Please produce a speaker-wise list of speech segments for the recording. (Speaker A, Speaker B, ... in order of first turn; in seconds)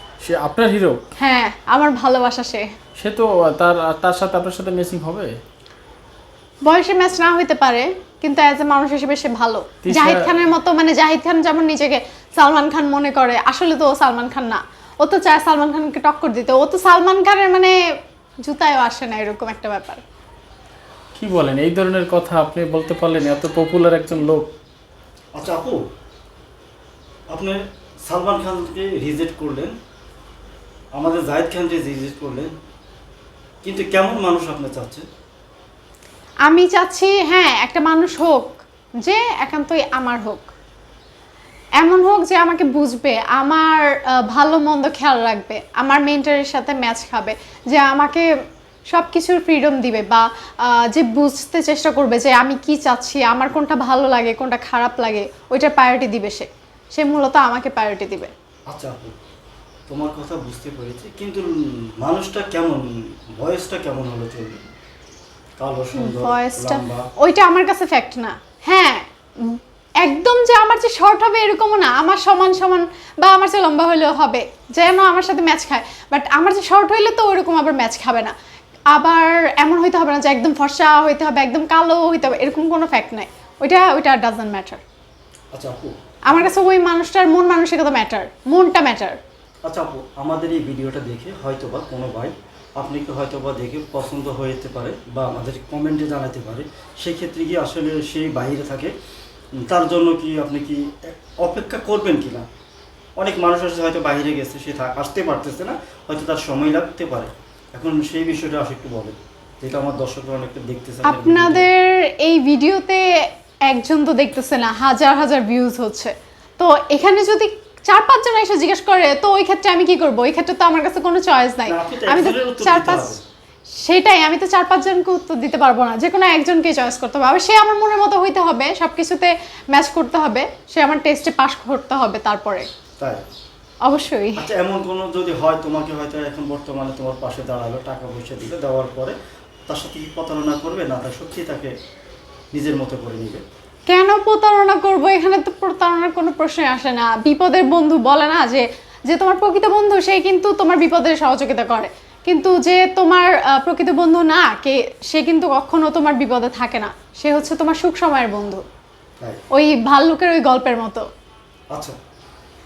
Speaker A: 0.2-1.0, 3.0-5.3, 9.8-10.3, 21.1-24.5
Speaker B: 1.2-2.7, 6.7-17.8, 18.4-20.0, 36.5-40.5, 41.8-48.3, 48.9-58.3, 66.0-78.3, 78.9-84.8, 86.3-89.2, 111.0-113.1, 113.7-123.2, 123.8-132.7, 133.8-134.4, 143.9-158.6, 159.5-161.1
Speaker C: 25.4-25.8, 27.3-29.7, 31.0-32.5, 33.6-35.0, 58.7-59.2, 59.9-62.8, 63.4-64.6, 65.6-67.1, 85.5-86.5, 89.7-98.9, 99.6-102.5, 103.2-111.7, 121.7-123.2, 133.0-133.2, 134.4-139.2, 139.7-141.7, 142.5-143.4